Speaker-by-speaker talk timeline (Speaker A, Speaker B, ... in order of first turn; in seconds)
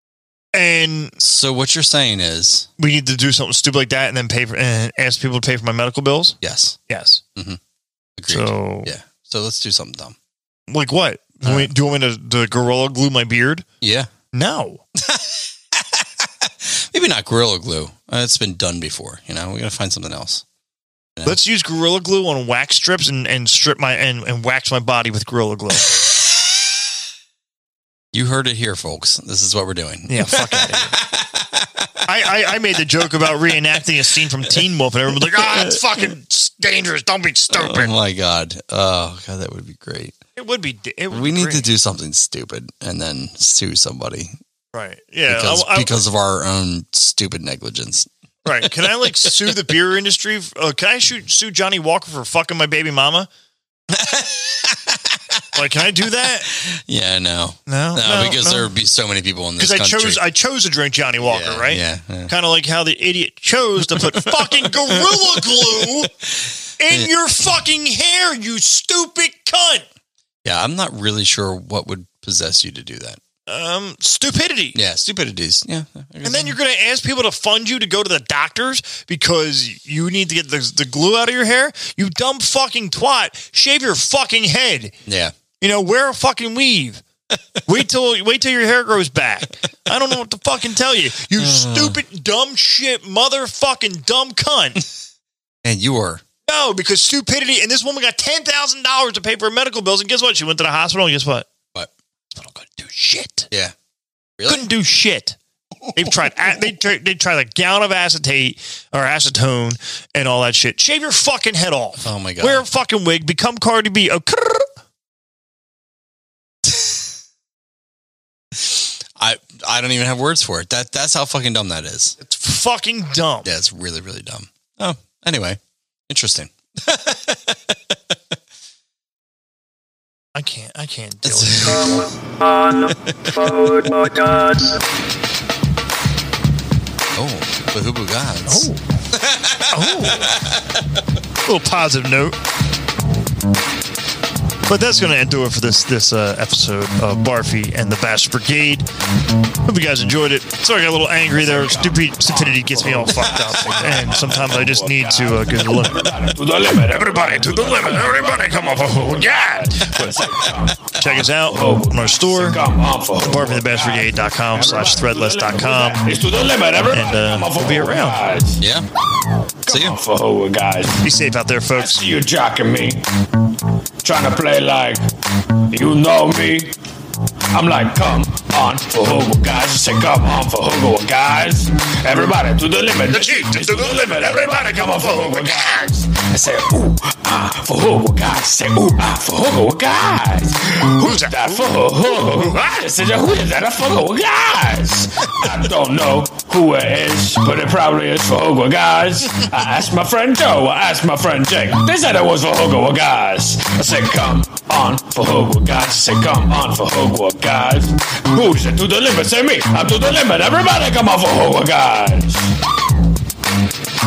Speaker A: 0.5-1.2, 2.8-6.4, 6.9-7.2, 8.3-8.9, 10.7-13.7, 14.3-14.8, 21.2-26.0, 30.1-31.0, 32.0-37.9, 40.4-41.7, 44.7-46.0, 48.4-53.3, 55.5-56.5, 57.7-58.7, 59.6-66.1, 66.8-69.8, 73.5-74.8, 76.2-85.0, 85.6-87.0, 87.7-94.8, 96.5-101.5, 102.3-103.5, 104.5-105.4, 105.9-114.7, 122.2-123.5, 130.3-132.2, 132.7-134.6, 138.5-139.0, 139.7-140.4, 141.4-142.4, 144.7-148.9, 149.6-156.1, 157.8-160.2, 160.9-162.6, 163.2-166.1, 166.9-168.2, 171.0-172.2, 183.1-185.8, 191.0-191.3
Speaker B: 1.2-2.7, 6.4-6.8, 8.2-10.2, 11.4-11.7, 13.8-14.1, 15.0-20.4, 25.9-26.2, 28.1-32.1, 35.2-35.8, 37.5-40.1, 41.1-44.4, 45.3-48.1, 48.6-49.5, 53.9-60.2, 61.2-62.3, 64.0-66.1, 70.4-73.2, 74.7-76.6, 85.0-85.3, 91.4-92.0, 95.6-96.2, 104.4-104.6, 112.0-112.6, 118.5-122.2, 123.4-128.2, 131.2-132.1, 132.8-133.9, 137.1-140.8, 168.6-168.9, 169.7-170.0
Speaker C: 151.4-168.6, 169.7-171.0, 171.8-173.0, 174.0-175.1, 175.7-176.7, 177.5-212.5